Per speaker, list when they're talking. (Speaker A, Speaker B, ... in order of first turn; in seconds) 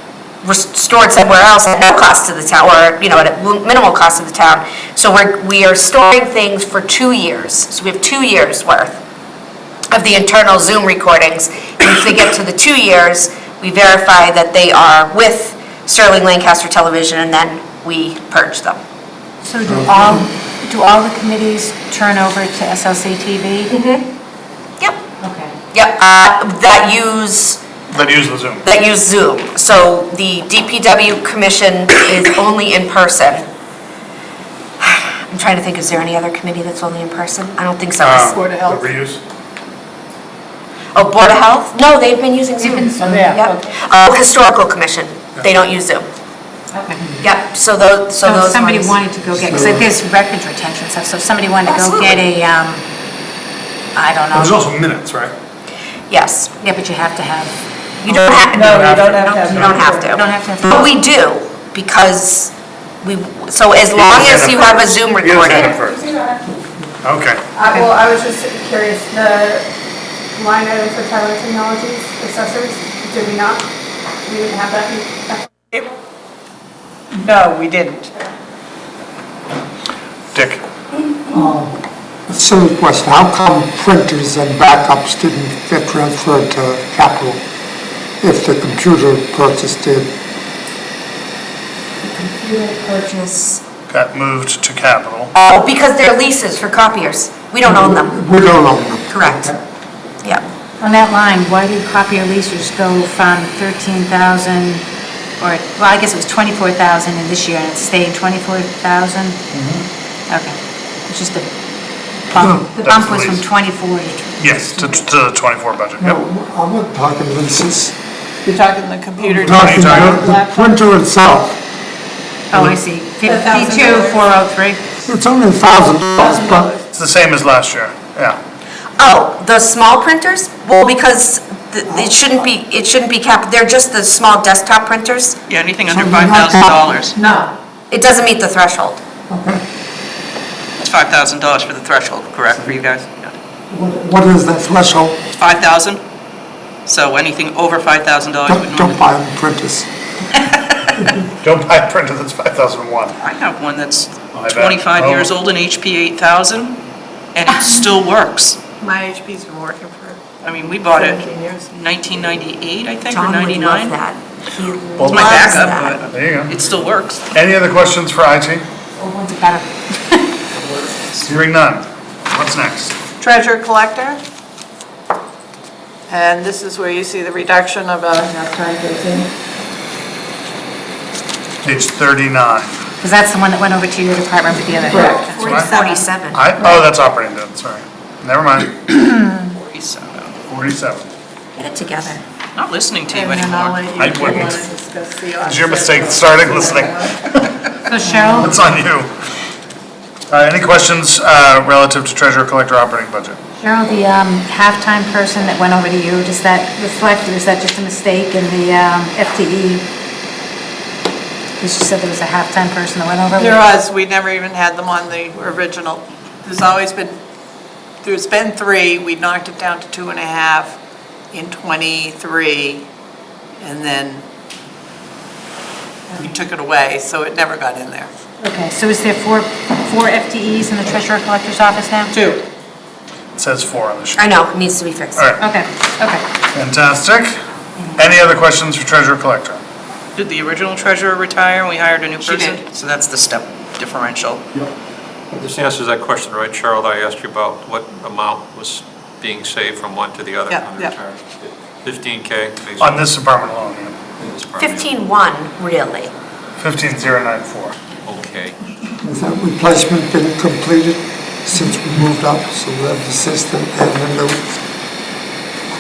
Speaker A: 0.4-9.0, 9.9-18.8, 23.7-24.1, 25.7-27.7, 28.6-33.4, 34.8-38.4, 40.9-46.1, 47.2-49.0, 51.7-52.2, 56.1-56.6, 58.0-59.0, 59.5-65.8, 92.0-93.6, 95.3-98.2, 99.1-99.5, 129.0-135.4, 137.9-139.0, 163.1-166.0, 184.9-186.7, 191.6-192.2, 234.2-235.3, 254.6-256.1
Speaker B: 19.4-23.7, 25.2-25.5, 42.6-43.3, 46.7-47.1, 48.2-52.8, 53.9-54.6, 56.6-58.5, 59.2-60.9, 100.8-104.8, 105.4-109.4, 110.3-110.6, 111.1-111.5, 112.3-115.0, 122.5-124.8, 169.0-170.3, 183.0-185.4, 197.9-198.6, 203.6-209.8, 211.6-213.7, 228.4-232.2, 235.4-236.2
Speaker C: 19.7-20.2, 49.4-49.9, 81.3-81.8, 82.3-87.4, 88.2-90.1, 97.6-99.6, 116.0-118.0, 119.2-121.6, 125.1-126.7, 131.9-132.2, 135.9-136.9, 139.3-139.6, 143.7-145.2, 148.4-149.9, 259.0-264.4
Speaker D: 27.9-28.6, 38.0-39.2, 54.3-55.3, 58.7-59.8, 63.9-66.0, 67.0-67.4, 80.3-80.6, 93.9-95.3, 109.5-109.9, 112.4-113.5, 114.4-116.2, 119.5-120.0, 126.9-128.4, 151.4-153.2, 154.3-155.3, 165.0-166.6, 167.3-168.7, 171.2-173.0, 181.6-182.7, 185.5-185.7, 186.3-188.8, 190.5-191.1, 194.0-194.6, 195.4-197.4, 198.4-199.1, 200.3-203.4, 233.4-234.2, 236.5-237.3, 238.0-239.6, 252.8-254.0, 256.6-257.8
Speaker E: 38.4-38.8, 43.0-43.6, 58.5-60.0, 77.1-78.1, 118.5-120.8, 126.4-126.8, 158.8-160.2, 161.0-161.6, 173.2-174.2, 176.1-179.1, 184.9-185.4, 193.1-196.9, 213.4-217.2, 218.0-220.8, 221.3-222.9, 223.6-224.2, 226.2-228.1, 232.1-232.4, 242.2-242.6, 250.5-250.9
Speaker F: 58.7-59.5, 67.6-69.7, 70.3-73.7, 74.2-75.5, 119.9-120.3, 123.2-124.2, 126.2-126.7, 178.8-179.3, 185.1-186.0, 195.9-196.8
Speaker G: 135.5-137.2, 140.8-143.3, 145.4-146.0, 146.9-149.0, 153.2-156.8, 157.3-158.6, 160.4-164.0, 165.1-167.2, 170.6-171.2, 189.6-190.4, 192.6-193.9, 240.2-244.4
Speaker H: 245.3-253.1, 254.2-254.9, 258.0-258.6